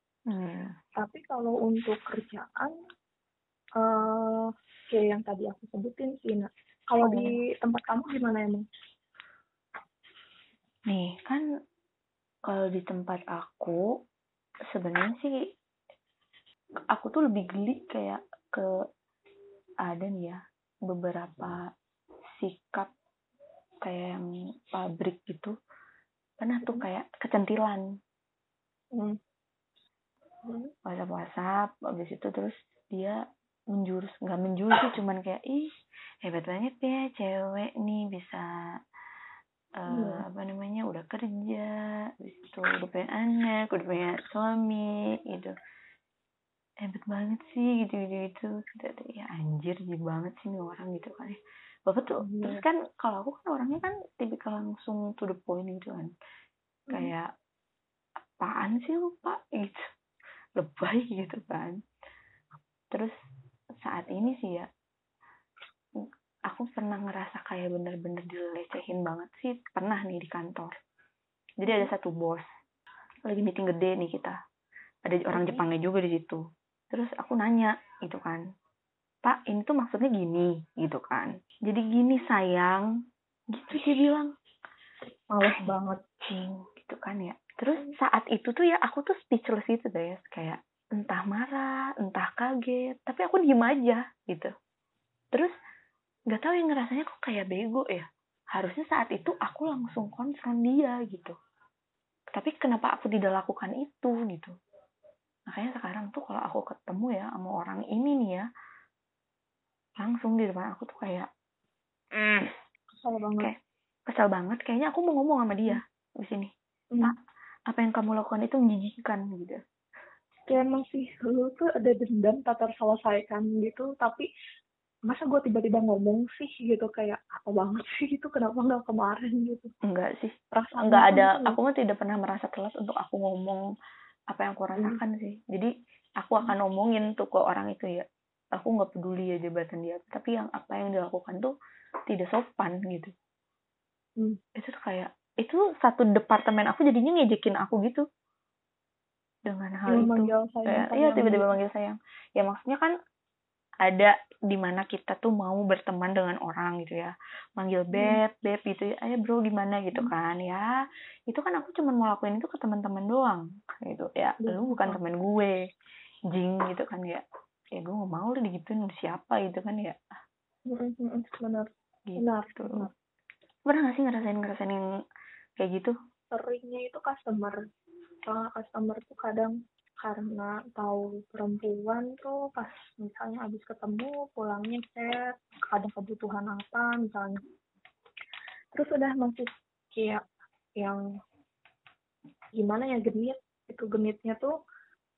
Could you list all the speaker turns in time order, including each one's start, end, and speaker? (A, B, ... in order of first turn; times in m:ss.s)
0:00.3-0:00.7 A
0:01.0-0:02.7 B
0:03.8-0:08.6 B
0:07.0-0:07.4 A
0:10.9-0:11.4 A
0:12.5-0:13.8 A
0:14.7-0:15.4 A
0:16.9-0:18.6 A
0:19.8-0:21.5 A
0:22.4-0:22.9 A
0:23.8-0:25.5 A
0:26.4-0:27.8 A
0:30.4-0:30.7 B
0:30.8-0:33.2 A
0:33.7-0:35.7 A
0:36.2-0:38.4 A
0:39.8-0:45.5 A
0:39.9-0:40.2 B
0:46.8-0:56.1 A
0:52.2-0:52.6 B
0:56.9-0:57.3 A
0:58.4-0:59.9 A
1:00.6-1:01.8 A
1:03.8-1:04.6 A
1:06.0-1:10.7 A
1:11.6-1:12.4 A
1:11.6-1:11.9 B
1:13.2-1:14.4 A
1:15.0-1:16.4 A
1:15.3-1:15.6 B
1:16.9-1:18.4 A
1:19.2-1:22.8 A
1:23.5-1:24.3 A
1:25.3-1:26.0 B
1:26.2-1:34.5 A
1:36.3-1:41.3 A
1:42.3-1:44.5 A
1:45.5-1:48.4 A
1:50.0-1:51.3 A
1:52.1-1:52.5 A
1:53.0-1:53.5 B
1:54.1-1:56.5 A
1:57.7-1:59.6 A
2:00.5-2:04.3 B
2:05.1-2:09.7 B
2:09.8-2:13.6 A
2:10.5-2:11.6 B
2:14.3-2:21.5 A
2:22.1-2:23.1 A
2:24.6-2:28.0 A
2:29.5-2:32.9 A
2:29.9-2:31.5 B
2:33.8-2:40.6 A
2:41.3-2:45.6 A
2:44.4-2:45.0 B
2:46.3-2:47.2 A
2:47.7-2:50.2 A
2:50.7-2:52.9 B
2:52.1-2:52.9 A
2:53.7-2:54.8 A
2:55.6-2:55.9 A
2:56.3-2:57.6 B
2:58.3-3:07.4 B
3:08.8-3:10.2 B
3:12.6-3:14.5 B